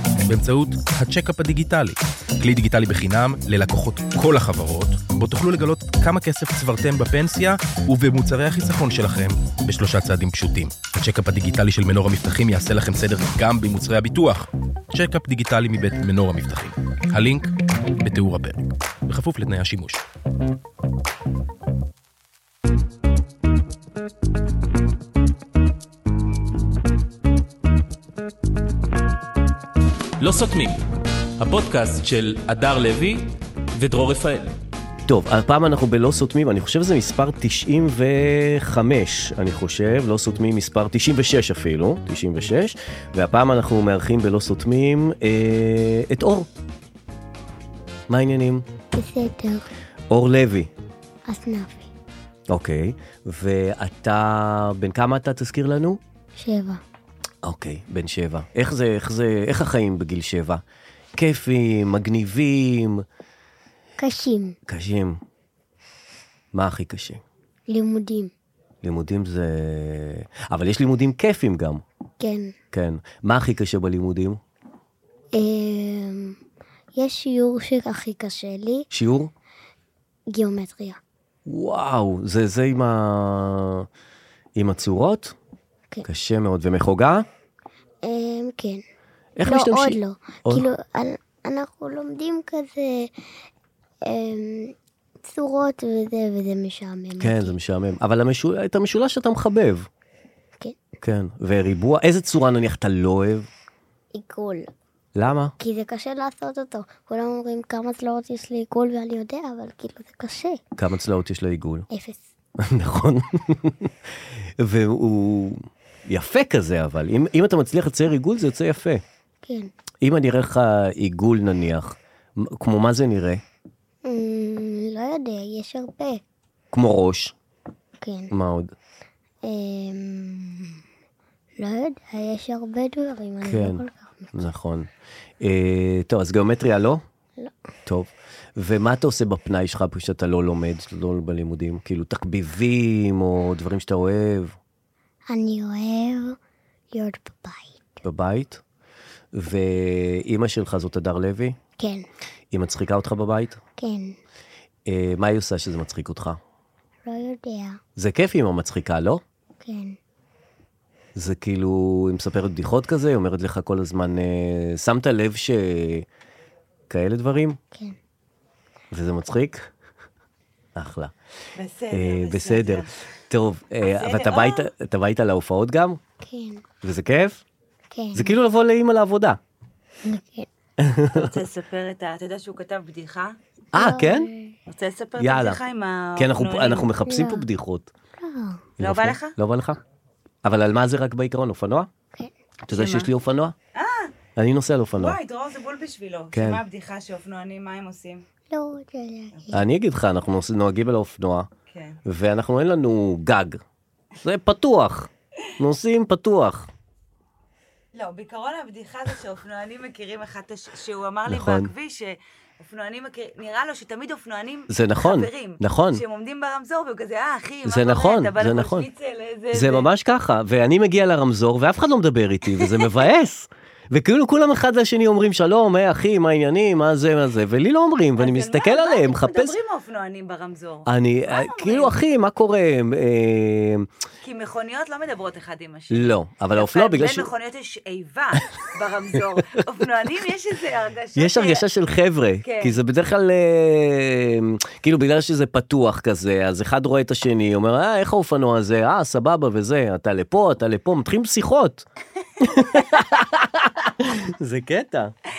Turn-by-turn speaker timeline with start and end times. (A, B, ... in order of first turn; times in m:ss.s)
0:00.3-0:20.0 A
0:30.2-0:30.8 B
0:31.4-0:34.6 B
0:35.0-0:46.5 C
0:48.1-0:48.6 C
0:48.9-0:49.7 D
0:50.1-0:50.7 C
0:51.3-0:51.9 D
0:52.5-0:56.0 C
0:56.4-0:56.8 D
0:57.4-1:00.6 C
1:01.2-1:03.0 C
1:04.0-1:04.6 D
1:04.7-1:05.2 C
1:06.5-1:07.2 C
1:07.7-1:08.3 D
1:08.8-1:11.8 C
1:12.2-1:12.5 D
1:12.7-1:14.4 C
1:15.3-1:16.4 D
1:17.0-1:18.9 D
1:18.9-1:19.3 C
1:20.3-1:21.0 D
1:21.5-1:23.9 C
1:24.6-1:25.4 C
1:26.0-1:27.3 C
1:28.0-1:28.8 D
1:29.4-1:30.7 C
1:29.4-1:33.1 D
1:34.0-1:34.7 D
1:35.2-1:37.6 D
1:37.2-1:39.9 C
1:41.0-1:43.5 C
1:44.1-1:44.7 D
1:45.2-1:45.6 C
1:45.6-1:50.6 D
1:50.8-1:51.9 C
1:51.9-1:52.2 D
1:52.6-1:53.9 C
1:54.6-1:59.0 C
1:59.4-1:59.7 D
2:00.0-2:03.4 C
2:04.0-2:06.2 D
2:06.7-2:07.3 C
2:08.0-2:08.3 D
2:08.3-2:08.7 C
2:09.4-2:10.8 D
2:11.6-2:14.4 D
2:13.4-2:14.9 C
2:15.4-2:17.0 C
2:17.9-2:24.6 C
2:25.3-2:26.4 D
2:26.9-2:28.0 D
2:28.0-2:28.6 C
2:29.3-2:31.6 C
2:31.8-2:32.0 D
2:32.5-2:33.6 C
2:33.8-2:34.2 D
2:34.9-2:36.4 C
2:37.1-2:37.8 D
2:38.0-2:39.2 C
2:39.6-2:40.0 D
2:41.2-2:46.1 C
2:46.9-2:47.6 C
2:48.9-2:49.7 C
2:50.8-2:51.1 C
2:51.6-2:52.9 E
2:51.9-2:56.0 C
2:53.8-2:54.7 E
2:56.2-2:56.6 D
2:56.8-2:57.4 C
2:57.9-2:58.4 D
2:58.1-2:59.4 C
3:00.0-3:00.5 D
3:00.8-3:01.3 C
3:01.1-3:03.4 E
3:03.7-3:04.3 C
3:03.8-3:04.5 D
3:04.7-3:06.9 E
3:05.2-3:05.6 C
3:06.2-3:07.9 C
3:07.1-3:07.4 D
3:08.2-3:08.6 D
3:08.8-3:09.8 C
3:08.8-3:09.4 E
3:10.4-3:11.9 C
3:12.7-3:13.6 C
3:12.7-3:13.1 E
3:13.8-3:14.1 E
3:14.4-3:15.2 C
3:15.0-3:18.2 E
3:16.3-3:16.6 C
3:18.5-3:19.6 D
3:19.5-3:21.5 C
3:21.7-3:22.0 E
3:22.0-3:23.6 C
3:24.2-3:26.7 C
3:28.0-3:39.9 E
3:31.3-3:31.7 C
3:34.7-3:36.0 C
3:37.6-3:38.9 C
3:39.5-3:49.6 C
3:48.2-3:51.9 E
3:50.8-3:53.9 C
3:54.2-4:01.6 E
3:55.9-3:57.3 C
4:01.2-4:11.8 C
4:02.4-4:02.8 E
4:12.4-4:15.1 C
4:12.5-4:13.0 E